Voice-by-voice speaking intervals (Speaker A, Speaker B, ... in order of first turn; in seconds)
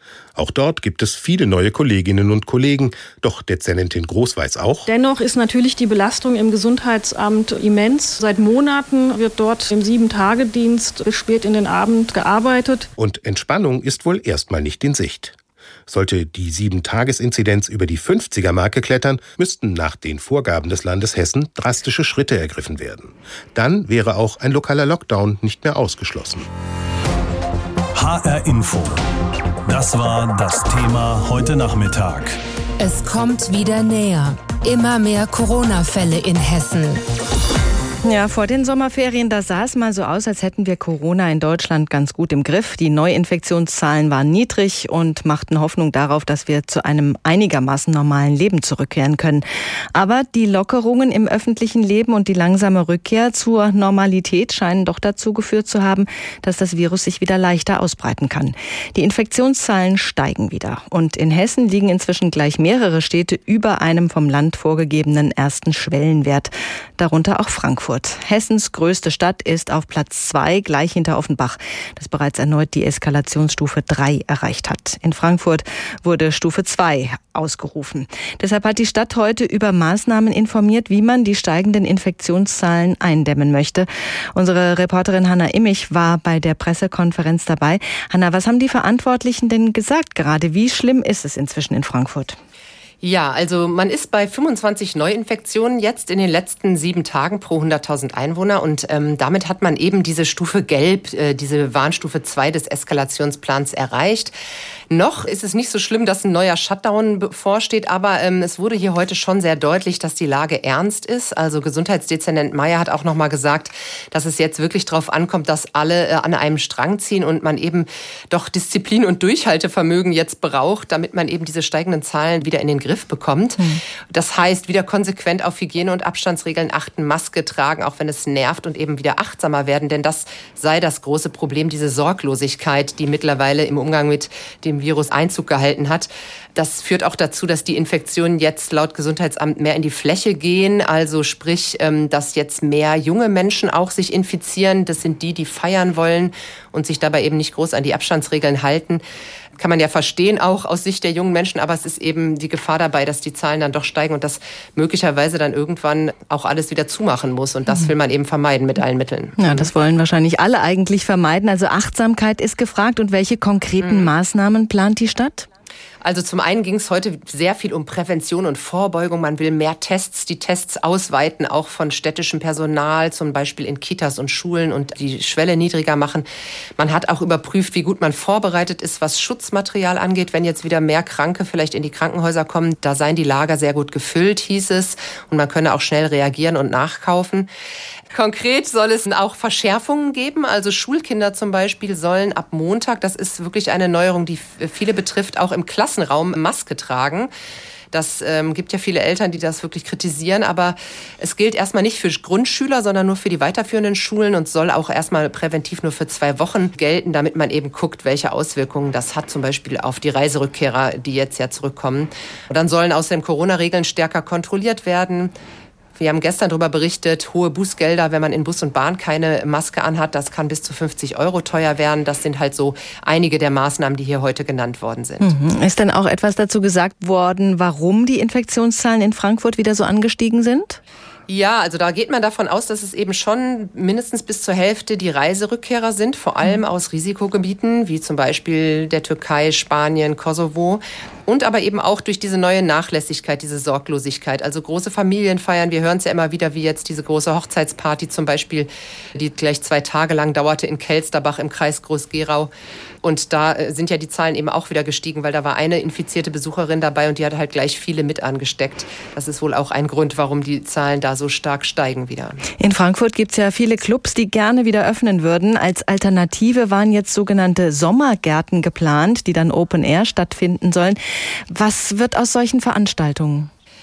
Speaker A: 0.3-4.9, 13.0-15.3, 15.9-26.5
Speaker B: 4.9-12.9
Speaker C: 27.9-29.0, 29.6-32.4
Speaker D: 32.8-37.0
Speaker E: 38.0-92.4, 159.4-165.5, 225.2-230.8, 262.6-271.0, 271.5-273.5
Speaker F: 93.0-104.3, 104.9-149.0, 149.6-159.7, 163.8-164.1, 166.0-176.2, 176.8-187.5, 188.1-197.3, 197.9-215.3, 216.0-225.3, 231.3-252.5, 253.0-262.4